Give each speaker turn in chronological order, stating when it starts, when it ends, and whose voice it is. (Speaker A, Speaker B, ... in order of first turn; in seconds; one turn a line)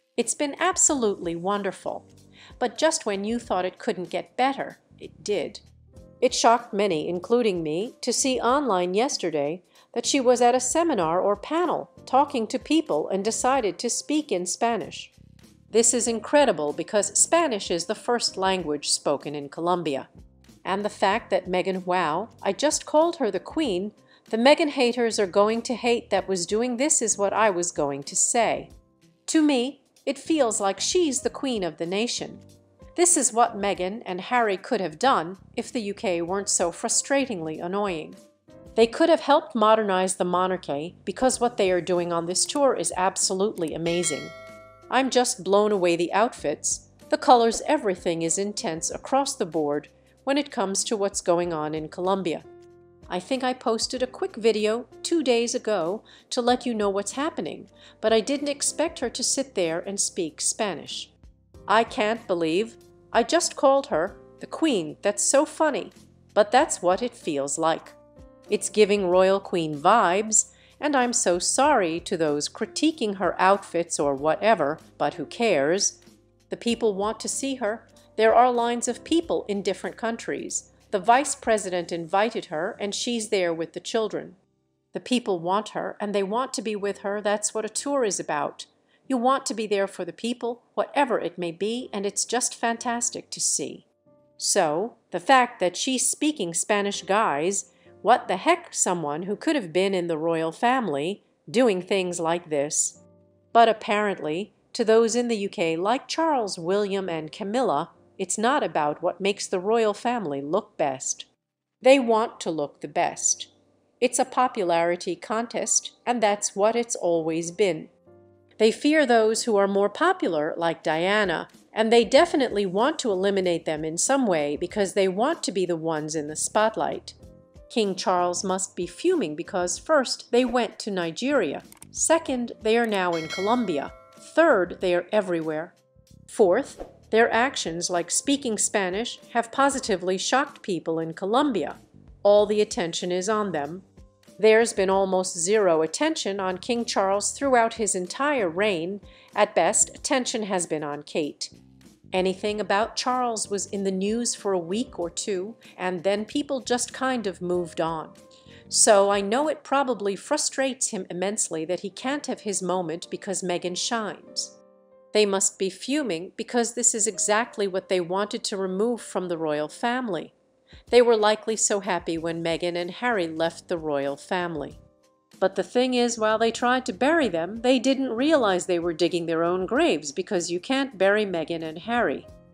Speaker A: 0.2-2.1
Speaker A: 2.6-5.6
Speaker A: 6.2-15.1
Speaker A: 15.7-20.1
Speaker A: 20.6-28.7
Speaker A: 29.3-32.4
Speaker A: 33.0-38.2
Speaker A: 38.8-44.3
Speaker A: 44.9-52.5
Speaker A: 53.1-61.1
Speaker A: 61.7-68.0
Speaker A: 68.5-76.0
Speaker A: 76.5-84.4
Speaker A: 84.9-93.9
Speaker A: 94.4-103.0
Speaker A: 103.5-111.3
Speaker A: 111.8-117.9
Speaker A: 118.6-127.2
Speaker A: 127.7-135.8
Speaker A: 136.3-143.8
Speaker A: 144.4-151.5
Speaker A: 152.1-158.2
Speaker A: 158.7-164.6
Speaker A: 165.1-170.3
Speaker A: 170.9-174.8
Speaker A: 175.4-182.3